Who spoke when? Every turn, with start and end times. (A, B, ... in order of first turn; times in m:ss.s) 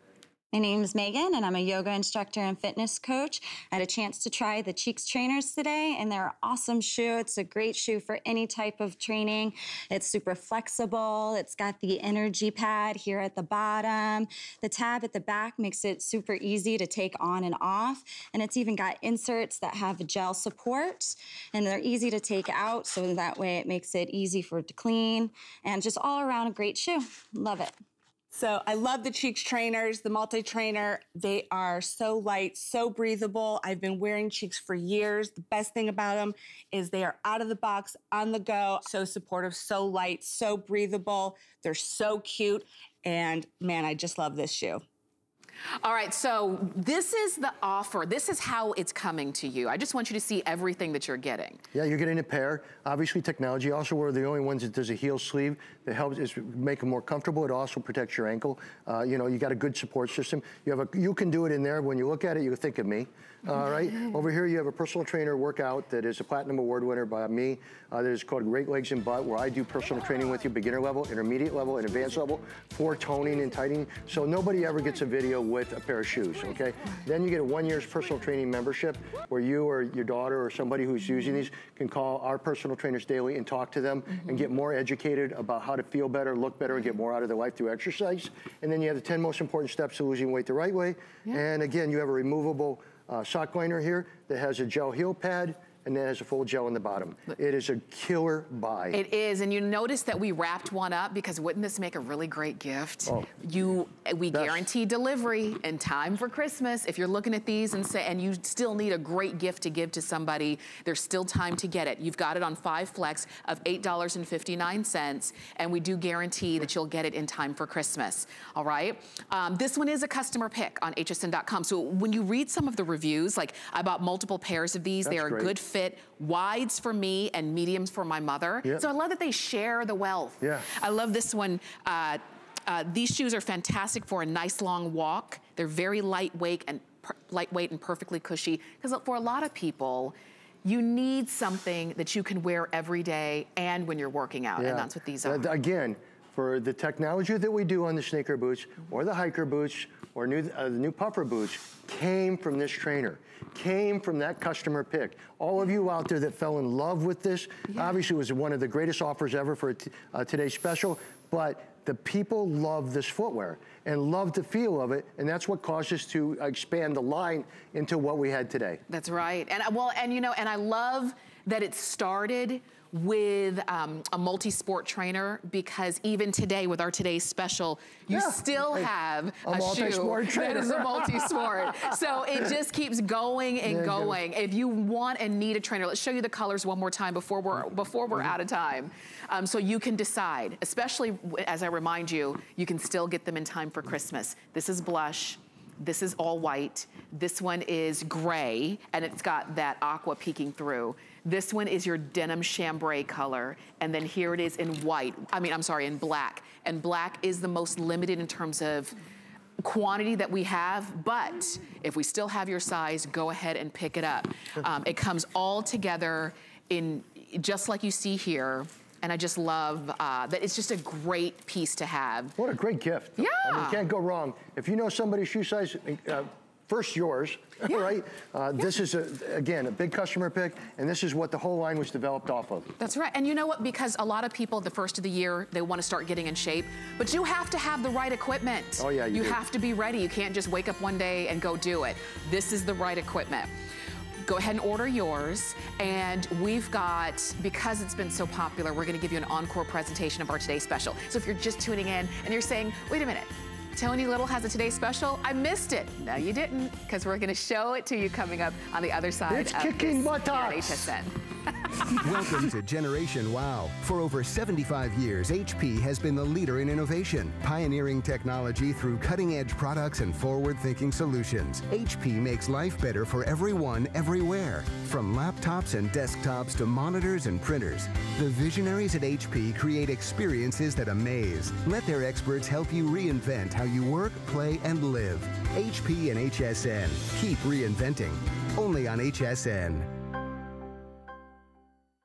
0:00.5-0:27.8 A
0:28.3-0:44.8 B
0:45.8-0:51.6 C
0:51.7-1:39.0 D
1:24.2-1:24.4 C
1:38.9-2:25.5 C
1:43.1-1:43.3 D
1:44.3-1:44.7 D
2:05.1-2:05.5 D
2:10.4-2:10.7 D
2:24.6-2:48.8 D
2:48.9-3:29.0 C
2:58.1-2:58.9 D
2:59.4-3:02.0 D
3:03.7-3:04.2 D
3:29.6-3:42.4 C
3:42.4-3:52.7 D
3:43.2-3:43.8 C
3:52.8-4:03.5 C
3:58.8-3:59.4 D
4:04.2-4:21.2 C
4:19.3-4:20.9 D
4:22.0-4:49.9 E